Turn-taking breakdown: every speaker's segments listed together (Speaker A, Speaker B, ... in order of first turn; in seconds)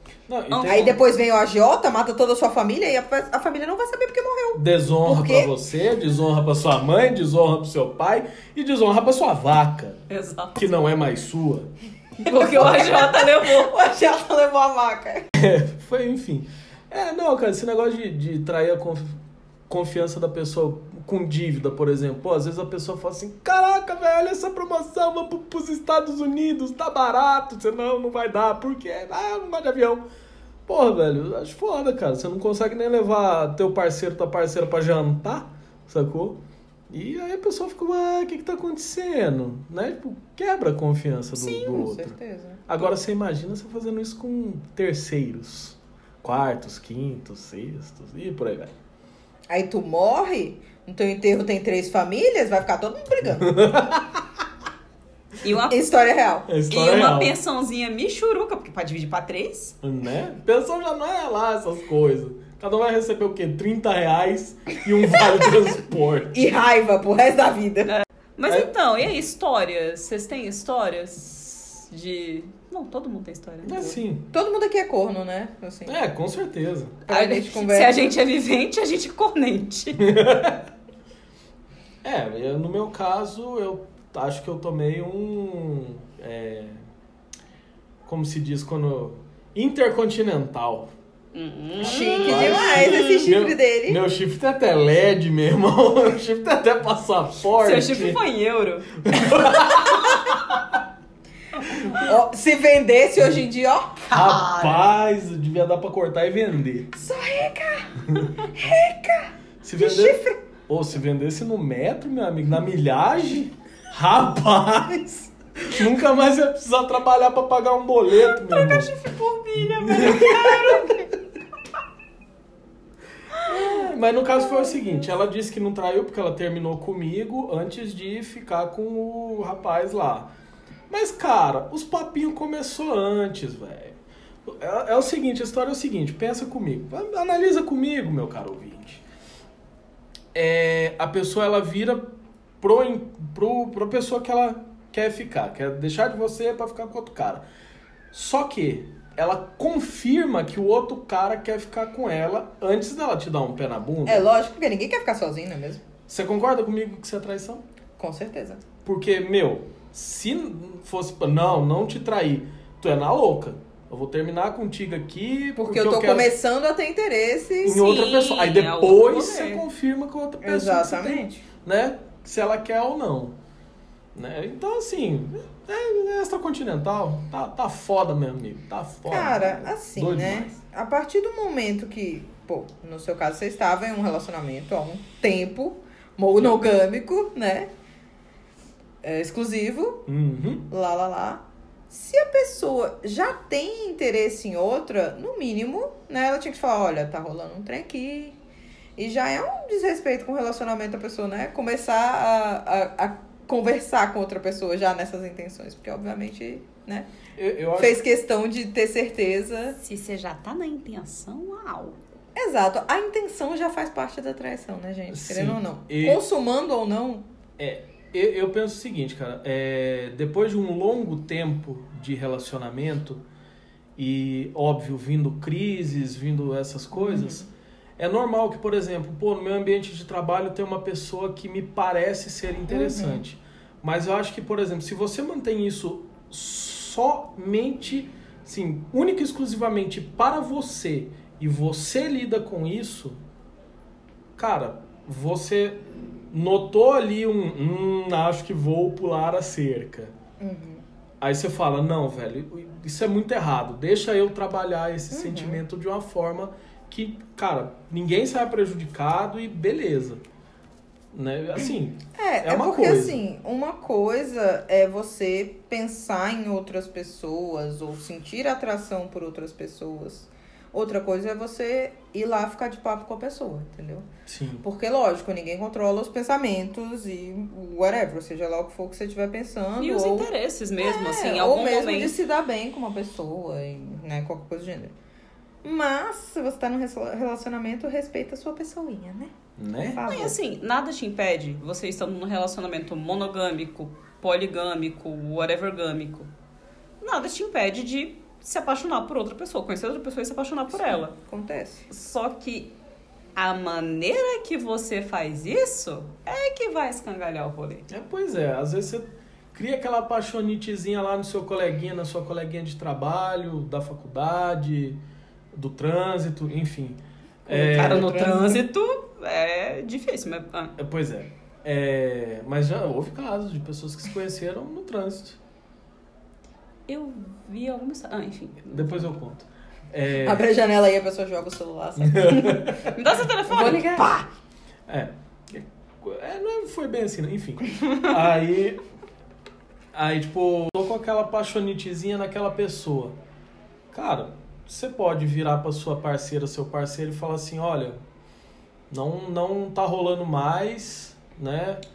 Speaker A: 0.3-1.0, 4.5-10.0, 10.6-11.7, 15.3-19.2, 19.7-30.1, 30.7-42.2, 42.7-48.7, 53.4-54.2, 56.5-57.4, 59.8-66.5, 73.6-74.3, 75.9-77.0, 80.0-80.7, 82.0-86.8, 88.0-90.9, 91.8-98.2, 99.0-100.8, 101.6-101.9, 104.1-106.9, 109.6-118.9, 119.8-120.8, 123.5-130.3, 130.9-139.0, 140.3-147.4, 148.1-154.3, 156.1-157.6, 158.8-166.3, 167.6-173.3, 174.1-180.5, 190.1-190.7, 207.3-208.0, 215.1-216.2, 217.6-223.2, 224.0-227.5, 228.0-243.2, 244.3-250.1, 251.2-260.2, 261.1-263.2, 274.2-274.6, 289.6-290.0, 307.9-315.0, 315.5-318.2, 320.8-325.4, 328.6-330.5, 332.0-332.9, 334.9-338.8, 339.9-343.1, 343.9-348.0, 348.9-351.8
Speaker B: 0.5-1.0, 10.1-10.7, 12.2-13.7, 41.4-41.8, 55.4-55.8, 56.7-59.8, 67.8-74.0, 77.1-80.1, 91.3-93.2, 97.5-100.2, 104.1-104.8, 118.2-121.1, 167.6-169.6, 209.7-212.0, 279.8-282.1, 290.0-296.3, 297.0-301.1, 301.9-302.7, 303.3-307.9, 317.5-320.8, 326.9-329.1, 332.9-334.2
Speaker C: 0.7-5.5, 12.2-15.3, 41.6-42.8, 49.5-53.5, 55.7-56.5, 66.3-67.9, 74.3-76.0, 77.1-78.1, 91.8-94.0, 102.0-104.1, 106.9-110.4, 154.1-155.8, 158.0-158.6, 165.6-168.0, 170.4-171.4, 179.1-187.7, 189.0-190.0, 190.7-198.4, 198.9-207.1, 207.8-209.8, 212.3-217.2, 226.9-227.5, 232.7-233.2, 250.4-250.8, 255.1-255.6, 262.2-274.1, 274.6-284.9, 285.6-289.3, 289.9-290.4, 300.7-301.8, 317.5-318.6, 330.2-332.9, 333.4-334.2